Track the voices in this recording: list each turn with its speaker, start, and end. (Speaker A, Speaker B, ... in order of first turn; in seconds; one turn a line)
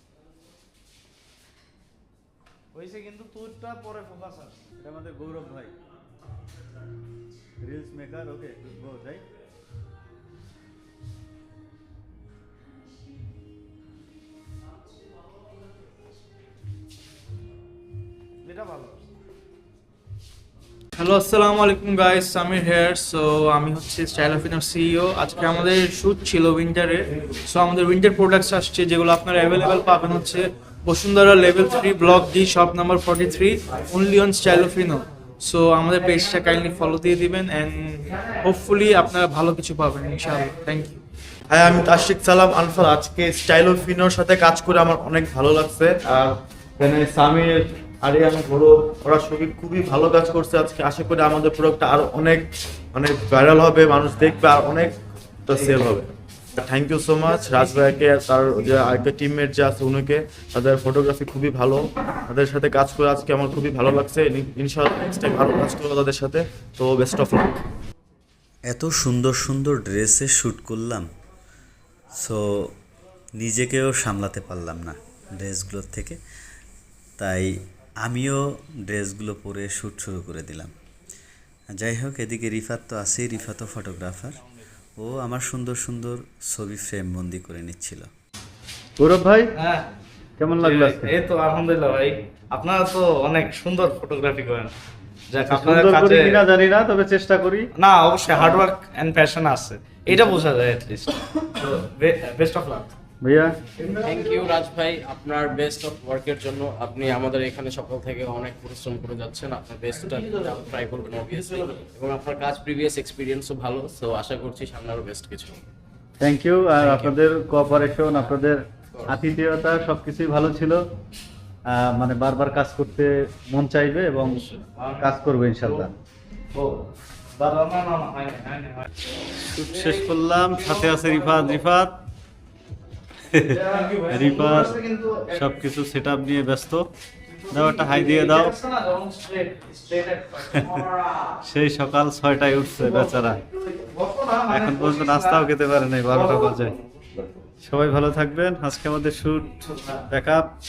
Speaker A: 2.7-4.6
Speaker B: 4.8-5.7
Speaker B: 7.7-9.2
Speaker A: 18.4-19.1
Speaker C: 21.0-41.0
Speaker D: 41.5-67.6
Speaker E: 68.7-71.1
Speaker E: 73.4-76.2
Speaker E: 77.2-80.7
Speaker E: 81.8-84.4
Speaker E: 85.0-88.1
Speaker B: 89.0-89.5
Speaker A: 89.6-89.9
Speaker B: 90.4-91.1
Speaker A: 90.6-94.7
Speaker A: 95.3-96.4
Speaker B: 95.5-97.7
Speaker A: 97.8-102.9
Speaker B: 103.2-103.5
Speaker F: 104.0-115.7
Speaker B: 116.2-120.8
Speaker F: 116.8-117.2
Speaker F: 118.1-118.4
Speaker B: 121.8-124.4
Speaker A: 124.2-125.9
Speaker B: 125.0-125.9
Speaker A: 126.5-128.9
Speaker B: 129.5-131.9
Speaker A: 129.6-131.6
Speaker A: 133.5-135.6
Speaker B: 133.5-134.8
Speaker B: 135.3-136.8
Speaker A: 137.3-141.3
Speaker B: 137.5-138.6
Speaker B: 141.4-143.4
Speaker A: 142.8-145.5
Speaker B: 144.5-146.8
Speaker A: 146.1-147.2
Speaker B: 147.7-149.6
Speaker B: 150.1-150.5